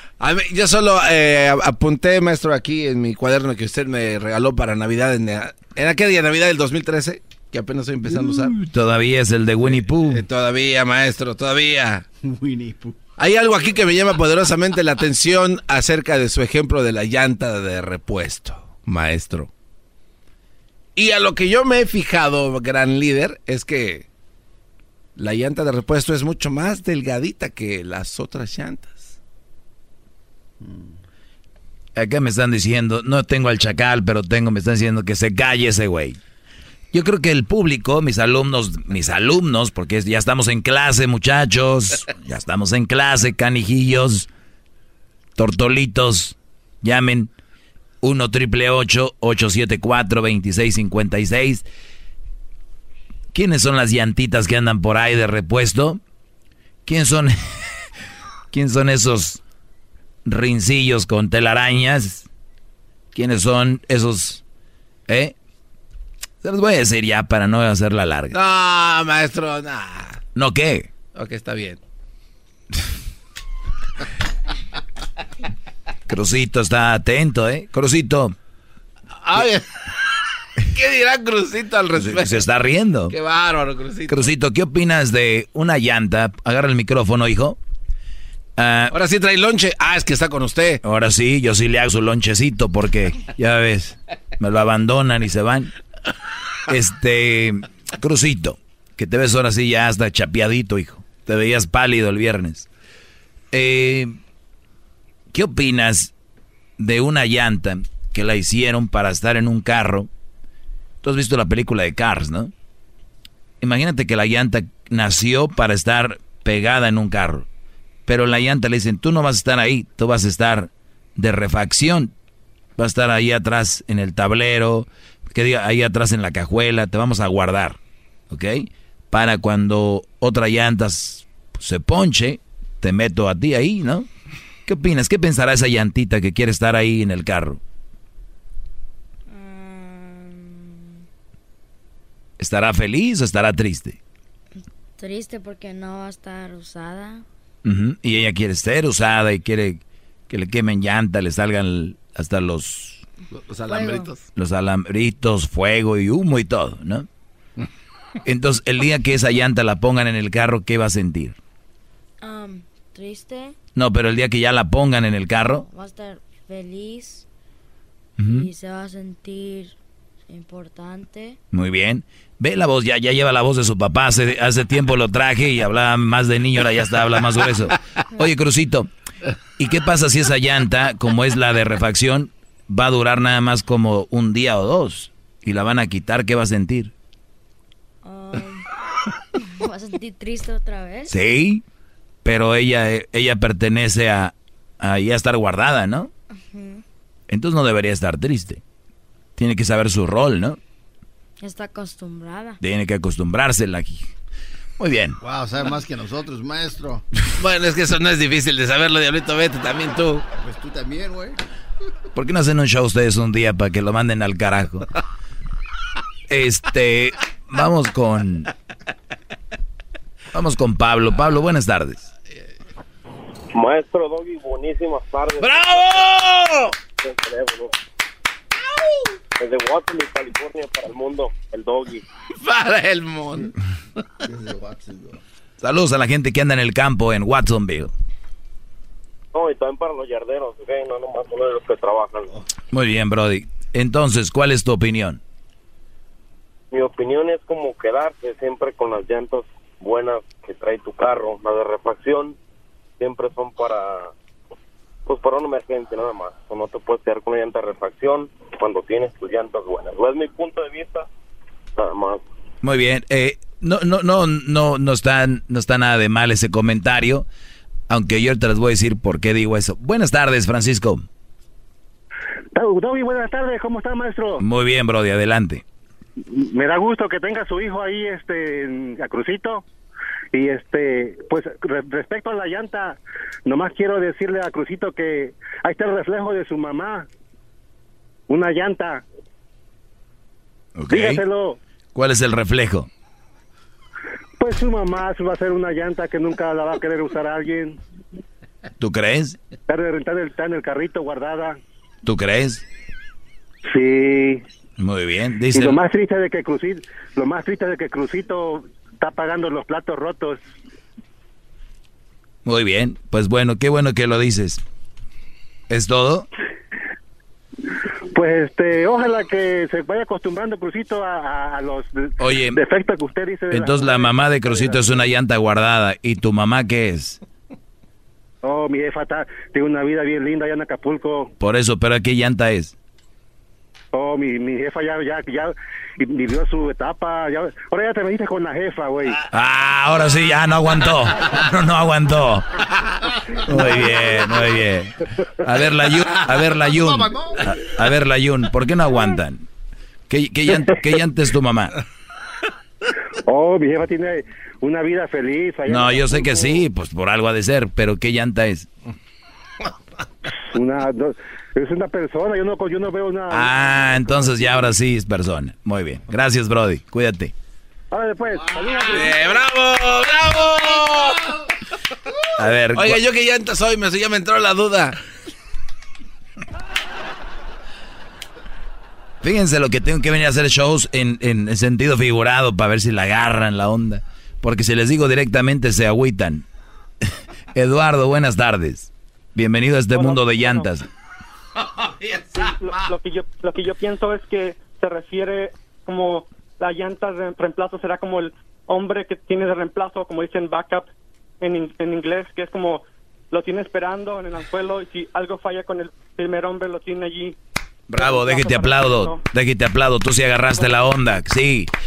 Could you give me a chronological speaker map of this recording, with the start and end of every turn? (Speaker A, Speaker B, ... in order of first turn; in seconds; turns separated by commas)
Speaker A: 0.2-8.5, Speaker B: 8.6-10.2, Speaker A: 9.6-12.1, Speaker C: 12.2-13.0, Speaker A: 13.2-19.5, Speaker A: 20.9-24.1, Speaker A: 25.2-29.1, Speaker C: 30.6-30.9, Speaker B: 31.9-36.2, Speaker B: 36.9-44.3, Speaker B: 45.4-47.3, Speaker B: 48.0-51.6, Speaker B: 53.3-56.0, Speaker B: 56.9-57.3, Speaker B: 58.5-59.4, Speaker B: 60.2-62.3, Speaker B: 63.1-64.4, Speaker B: 65.1-65.3, Speaker B: 66.4-68.4, Speaker A: 68.3-70.2, Speaker B: 70.3-70.9, Speaker A: 71.1-71.8, Speaker B: 76.1-78.3, Speaker A: 79.2-79.7, Speaker A: 80.7-82.4, Speaker B: 82.0-83.1, Speaker A: 83.1-84.3, Speaker B: 84.1-87.6, Speaker B: 88.6-89.0, Speaker A: 88.9-90.8, Speaker B: 90.8-95.7, Speaker B: 96.7-102.7, Speaker B: 103.5-104.2, Speaker B: 105.3-106.1, Speaker B: 106.8-110.1, Speaker B: 111.0-112.5, Speaker B: 113.6-117.5, Speaker B: 118.1-122.1, Speaker B: 122.8-127.8, Speaker B: 128.3-134.1, Speaker B: 134.7-137.6, Speaker D: 139.3-141.0, Speaker B: 142.4-144.0, Speaker D: 145.0-147.2, Speaker B: 147.6-153.0, Speaker A: 153.5-154.2, Speaker D: 153.7-154.1, Speaker B: 154.3-157.1, Speaker B: 158.2-161.4, Speaker D: 162.2-163.5, Speaker B: 163.7-165.6, Speaker D: 165.5-167.2, Speaker B: 168.2-168.5, Speaker D: 168.2-169.7, Speaker D: 170.3-171.4, Speaker B: 171.5-178.9, Speaker B: 179.6-186.9, Speaker D: 188.0-188.6, Speaker D: 189.6-191.1, Speaker B: 191.1-191.6, Speaker B: 192.2-196.1, Speaker D: 196.5-196.8, Speaker B: 197.3-198.6, Speaker B: 199.4-200.6, Speaker D: 201.4-202.6, Speaker B: 202.6-204.1, Speaker B: 204.8-205.2, Speaker C: 205.2-207.0, Speaker A: 207.4-210.2, Speaker C: 210.4-211.4, Speaker B: 212.1-214.8, Speaker B: 216.3-218.5, Speaker B: 220.3-222.1, Speaker E: 223.5-226.1, Speaker A: 225.4-226.7, Speaker E: 227.0-227.7, Speaker E: 229.4-232.0, Speaker A: 232.4-233.5, Speaker C: 234.2-235.2, Speaker B: 235.6-237.9, Speaker E: 239.3-242.4, Speaker B: 242.7-245.2, Speaker E: 246.7-252.3, Speaker E: 253.0-254.1, Speaker E: 255.1-261.1, Speaker E: 261.8-262.2, Speaker B: 262.6-267.2, Speaker B: 267.9-271.1, Speaker F: 272.5-274.4, Speaker B: 274.4-275.6, Speaker F: 276.3-279.6, Speaker F: 280.3-287.1, Speaker F: 288.3-289.0, Speaker B: 290.8-291.2, Speaker F: 290.9-291.6, Speaker B: 291.9-292.9, Speaker F: 294.4-297.8, Speaker B: 298.8-299.4, Speaker F: 299.7-301.6, Speaker B: 302.0-302.6, Speaker F: 303.6-304.4, Speaker B: 304.8-305.8, Speaker F: 305.5-310.4, Speaker B: 312.4-314.6, Speaker B: 315.7-316.3, Speaker F: 318.1-325.0, Speaker B: 322.2-322.6, Speaker B: 323.5-327.2, Speaker F: 328.4-331.3, Speaker B: 331.4-332.7, Speaker F: 333.9-339.2, Speaker B: 339.3-342.4, Speaker B: 343.5-349.4, Speaker C: 346.8-347.4, Speaker B: 350.1-351.8, Speaker F: 353.3-356.6, Speaker B: 355.7-358.7, Speaker F: 360.5-363.7, Speaker B: 363.3-367.3, Speaker F: 367.9-369.2, Speaker A: 368.9-371.3, Speaker B: 372.4-373.0, Speaker A: 372.7-375.0, Speaker B: 379.2-386.4, Speaker B: 387.5-390.9, Speaker G: 389.9-390.7, Speaker A: 392.0-392.7, Speaker G: 392.3-400.9, Speaker G: 401.4-407.4, Speaker B: 407.9-411.7, Speaker G: 407.9-409.2